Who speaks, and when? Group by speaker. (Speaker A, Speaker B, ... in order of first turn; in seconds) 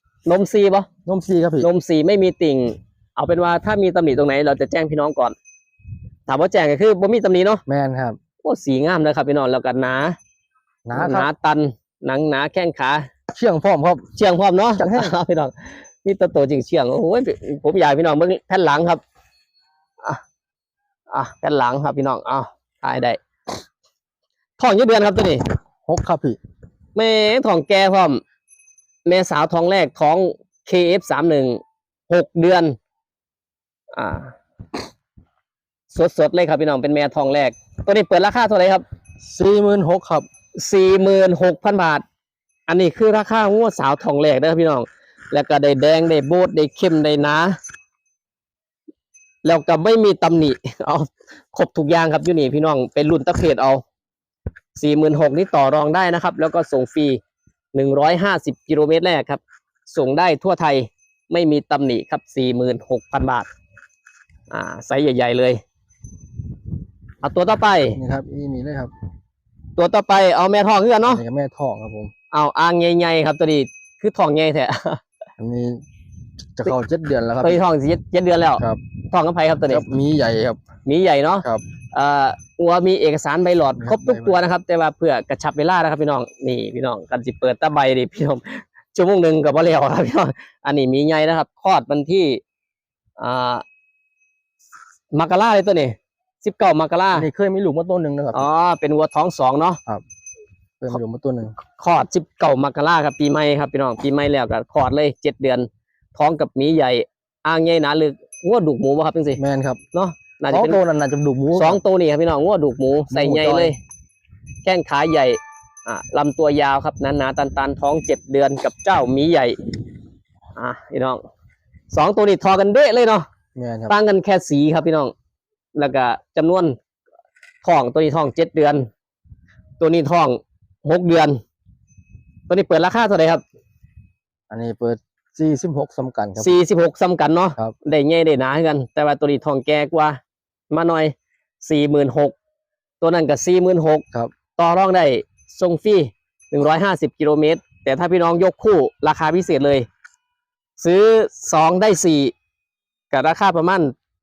Speaker A: 0.2-0.9, 1.6-5.4, 6.3-7.6, 8.4-10.2, 10.9-13.1, 14.2-19.0, 21.1-23.2, 24.6-25.4, 26.9-28.2, 29.1-32.8, 33.9-34.3, 35.9-38.8, 40.6-42.0, 42.7-47.6, 49.4-53.8, 54.8-57.2, 57.7-63.5, 64.5-65.6, 67.2-68.0, 69.8-71.2, 72.3-75.0, 77.4-79.8, 80.9-92.4, 93.2-93.6, 95.1-97.3, 98.3-99.8, 101.8-109.4, 109.9-110.8, 111.5-113.8, 114.6-119.6, 120.6-121.2, 121.9-123.3, 123.9-125.1, 125.8-126.8, 127.6-128.9, 129.8-131.4, 132.5-133.4, 136.4-140.2, 140.7-142.3, 143.0-144.1, 144.6-149.9, 150.8-152.3, 153.1-153.9
Speaker B: 1.1-1.7, 7.7-8.2, 10.9-11.3, 13.3-14.1, 14.8-15.1, 25.9-26.4, 39.2-40.3, 68.0-68.9, 71.1-72.1, 75.4-75.8, 76.5-77.6, 79.7-80.6, 83.8-84.4, 97.1-98.5, 100.8-101.5, 109.4-109.8, 110.5-111.8, 113.1-113.7, 123.6-124.0, 134.5-136.6